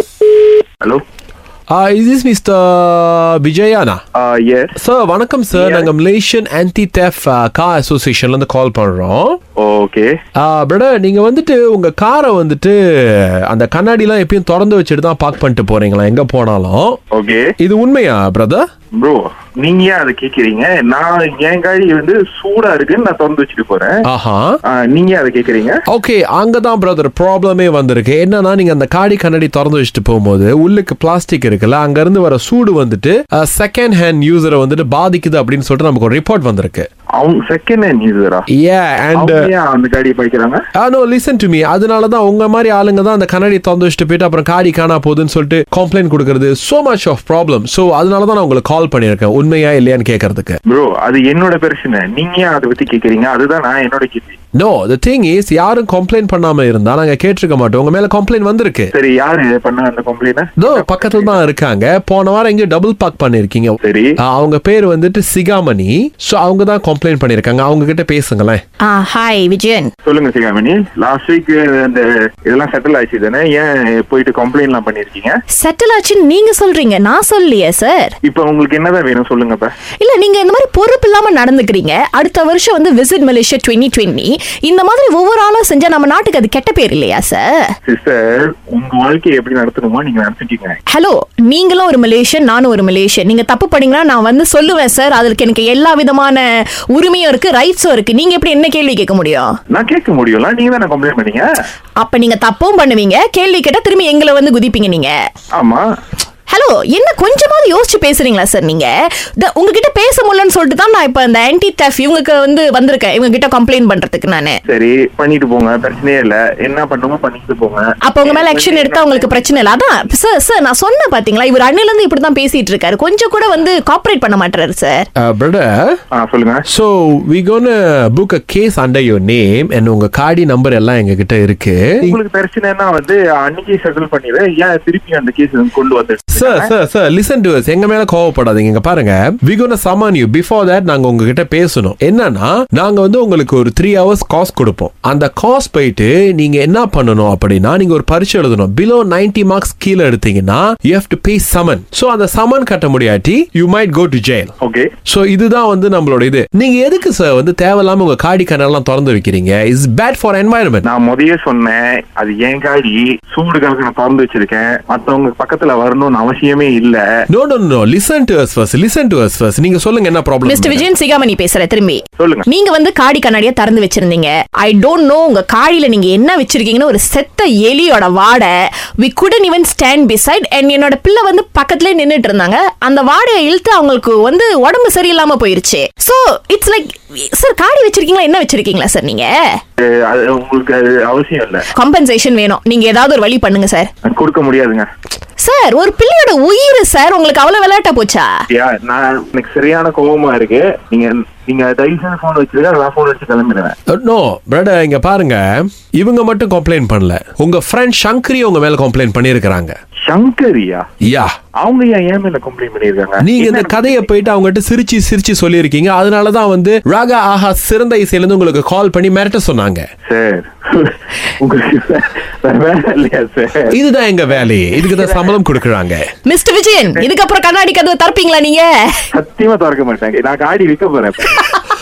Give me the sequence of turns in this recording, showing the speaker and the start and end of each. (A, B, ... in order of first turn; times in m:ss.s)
0:01.7-0:04.0 A
0:04.2-0:04.8 B
0:04.8-0:09.4 A
0:05.5-0:05.9 B
0:09.6-0:10.1 B
0:10.4-0:17.0 A
0:17.1-0:17.5 B
0:17.6-0:18.7 A
0:19.0-0:23.9 B
0:24.0-0:24.6 A
0:24.7-0:25.8 B
0:25.9-0:36.9 A
0:37.2-0:38.5 B
0:38.5-0:39.5 A
0:39.2-0:40.6 B
0:40.8-0:50.6 A
0:50.7-0:54.4 B
0:54.6-0:58.9 A
0:58.9-1:01.4 B
1:00.6-1:08.6 A
1:03.8-1:04.2 B
1:08.8-1:09.9 C
1:10.0-1:15.4 B
1:15.6-1:18.2 C
1:18.2-1:19.7 B
1:20.0-1:27.7 C
1:27.9-1:30.8 B
1:30.9-1:39.5 C
1:39.7-1:41.5 B
1:42.0-1:45.1 C
1:45.5-1:45.8 B
1:46.5-1:54.6 C
1:54.7-2:00.1 B
1:58.0-2:05.1 C
2:05.2-2:06.0 A
2:06.1-2:06.6 B
2:06.7-2:12.2 A
2:12.0-2:16.7 B
2:16.3-2:34.5 A
2:34.6-2:34.9 B
2:35.1-2:40.9 A
2:40.8-2:47.0 B
2:47.3-2:50.9 A
2:50.4-3:09.3 C
2:52.2-2:52.4 B
3:09.8-3:11.6 B
3:11.7-3:13.9 C
3:14.0-3:14.9 B
3:15.4-3:18.4 C
3:18.5-3:23.8 B
3:23.9-3:29.7 A
3:30.1-3:30.8 B
3:31.0-3:31.3 A
3:31.6-3:34.1 B
3:33.2-3:39.9 A
3:40.1-3:43.8 B
3:43.7-3:46.1 A
3:46.3-3:49.0 C
3:49.1-3:51.4 B